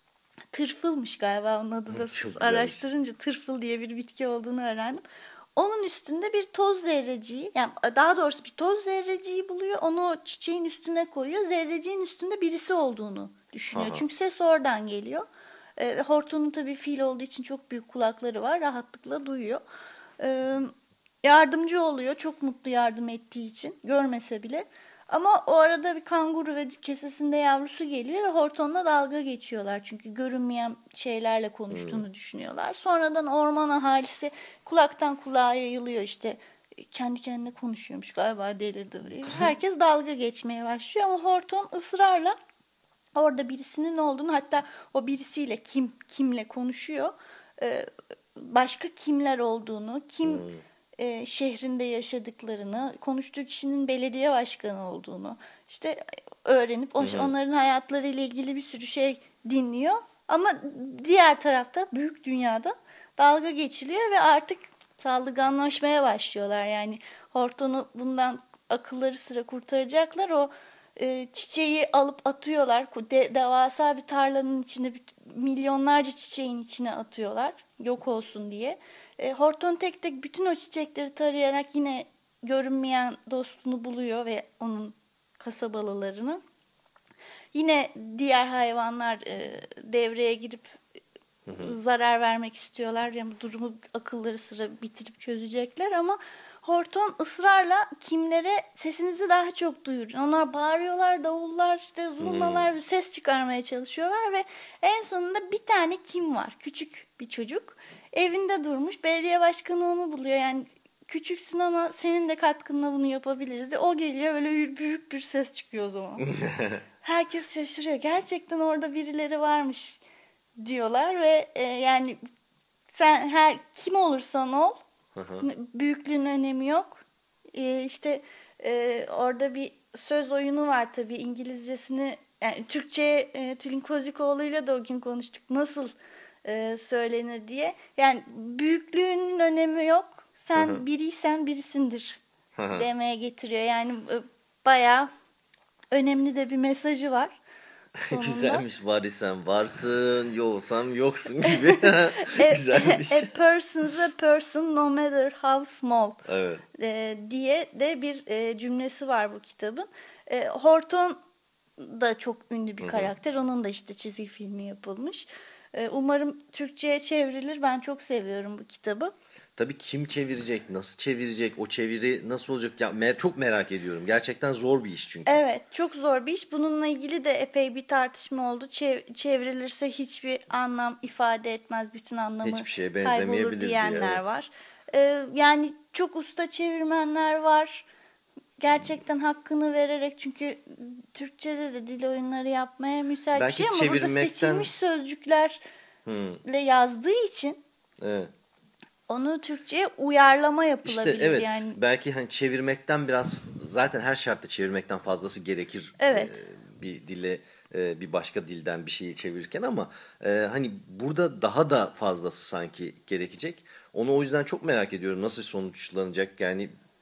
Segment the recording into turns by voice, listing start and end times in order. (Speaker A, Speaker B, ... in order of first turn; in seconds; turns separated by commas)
Speaker A: 0.5-5.0, Speaker B: 1.9-2.8, Speaker A: 5.5-15.3, Speaker B: 13.7-14.1, Speaker A: 15.8-19.6, Speaker A: 20.2-42.4, Speaker B: 31.7-32.0, Speaker B: 39.2-39.5, Speaker A: 43.2-50.5, Speaker B: 50.2-50.6, Speaker A: 51.0-86.4, Speaker B: 57.0-57.3, Speaker A: 87.5-90.8, Speaker B: 91.5-91.8, Speaker A: 91.6-116.3, Speaker B: 102.2-102.7, Speaker B: 116.2-116.8, Speaker A: 117.0-120.0, Speaker A: 120.6-122.2, Speaker A: 122.9-124.8, Speaker B: 125.2-125.5, Speaker A: 125.4-135.9, Speaker A: 136.4-142.2, Speaker B: 140.6-140.8, Speaker B: 142.6-142.9, Speaker A: 142.7-145.1, Speaker A: 145.9-147.4, Speaker B: 148.0-153.3, Speaker A: 148.1-148.6, Speaker A: 151.5-156.2, Speaker B: 156.2-156.6, Speaker A: 156.8-161.2, Speaker A: 161.8-169.1, Speaker B: 162.8-163.1, Speaker B: 169.6-175.4, Speaker A: 175.3-187.9, Speaker B: 182.4-184.2, Speaker A: 188.6-195.6, Speaker B: 193.3-194.7, Speaker B: 196.1-196.4, Speaker A: 196.4-197.6, Speaker B: 198.0-198.3, Speaker A: 199.1-201.8, Speaker B: 200.8-216.7, Speaker A: 206.0-206.3